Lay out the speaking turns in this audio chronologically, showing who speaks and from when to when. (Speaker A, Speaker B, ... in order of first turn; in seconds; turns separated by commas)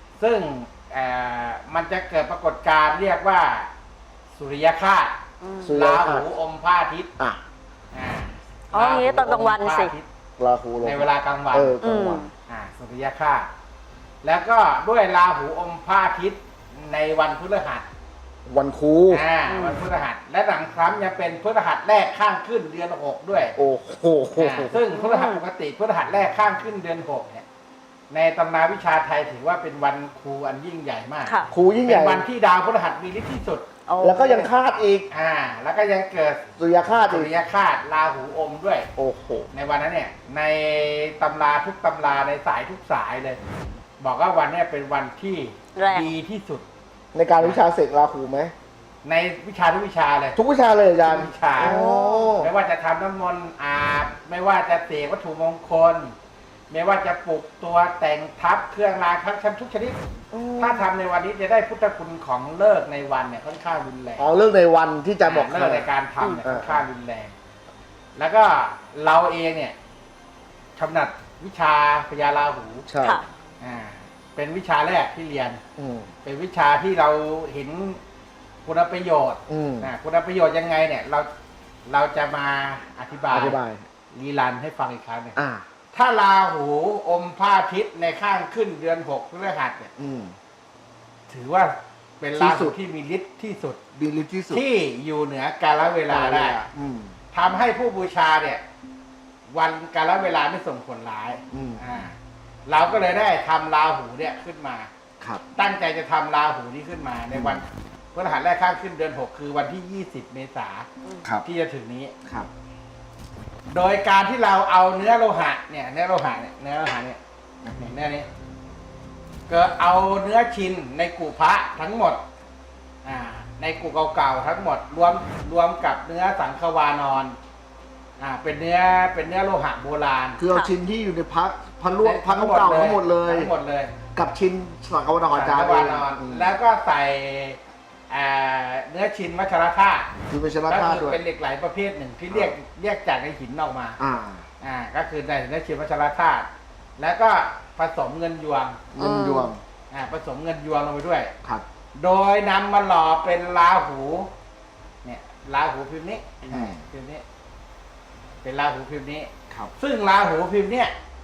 Speaker A: 0.2-3.7, Speaker A: 4.3-5.2, Speaker B: 5.4-5.7, Speaker C: 5.6-6.2, Speaker A: 5.7-7.1, Speaker A: 7.9-10.1, Speaker B: 8.7-9.9, Speaker C: 10.4-12.2, Speaker A: 10.8-11.8, Speaker B: 11.8-12.3, Speaker A: 12.5-13.5, Speaker A: 14.2-17.9, Speaker C: 18.4-19.2, Speaker A: 19.1-23.5, Speaker B: 19.5-19.8, Speaker C: 23.6-24.8, Speaker A: 24.4-27.4, Speaker B: 24.9-25.4, Speaker A: 28.1-33.6, Speaker C: 31.5-32.2, Speaker B: 33.9-34.5, Speaker C: 34.0-35.1, Speaker A: 35.1-36.5, Speaker C: 36.6-37.3, Speaker A: 37.1-38.9, Speaker C: 39.0-39.5, Speaker A: 39.5-43.4, Speaker A: 44.0-46.6, Speaker B: 45.7-46.1, Speaker C: 47.1-48.5, Speaker A: 49.0-50.4, Speaker C: 50.4-52.5, Speaker A: 51.0-51.8, Speaker B: 51.6-52.3, Speaker A: 52.4-56.1, Speaker A: 56.7-60.0, Speaker C: 60.3-60.8, Speaker A: 60.6-64.3, Speaker C: 64.2-65.8, Speaker A: 65.2-67.3, Speaker C: 66.4-66.8, Speaker A: 68.2-69.7, Speaker A: 70.8-72.8, Speaker C: 72.9-73.2, Speaker A: 73.6-75.6, Speaker C: 75.8-76.1, Speaker A: 76.2-78.0, Speaker A: 78.6-81.3, Speaker C: 79.5-79.9, Speaker A: 81.9-83.6, Speaker C: 83.3-83.8, Speaker A: 84.1-85.4, Speaker C: 85.3-85.7, Speaker A: 85.9-89.9, Speaker C: 90.0-90.3, Speaker A: 91.3-93.8, Speaker C: 92.4-92.8, Speaker C: 94.0-94.6, Speaker A: 94.5-96.6, Speaker C: 96.1-97.2, Speaker A: 97.3-98.6, Speaker A: 99.5-102.1, Speaker C: 101.5-101.9, Speaker A: 102.7-104.9, Speaker A: 105.5-110.9, Speaker C: 107.3-107.6, Speaker A: 111.4-112.1, Speaker A: 113.7-117.2, Speaker A: 117.8-118.3, Speaker A: 119.5-122.2, Speaker A: 123.0-127.3, Speaker A: 128.2-130.4, Speaker C: 130.4-133.5, Speaker A: 132.0-133.9, Speaker C: 134.1-136.5, Speaker A: 135.3-140.1, Speaker C: 140.3-141.2, Speaker A: 140.7-144.0, Speaker C: 144.0-144.4, Speaker A: 144.6-148.8, Speaker C: 148.9-149.6, Speaker B: 149.0-149.5, Speaker A: 149.9-151.3, Speaker A: 152.0-154.3, Speaker A: 155.0-157.2, Speaker C: 156.5-156.8, Speaker A: 158.4-160.9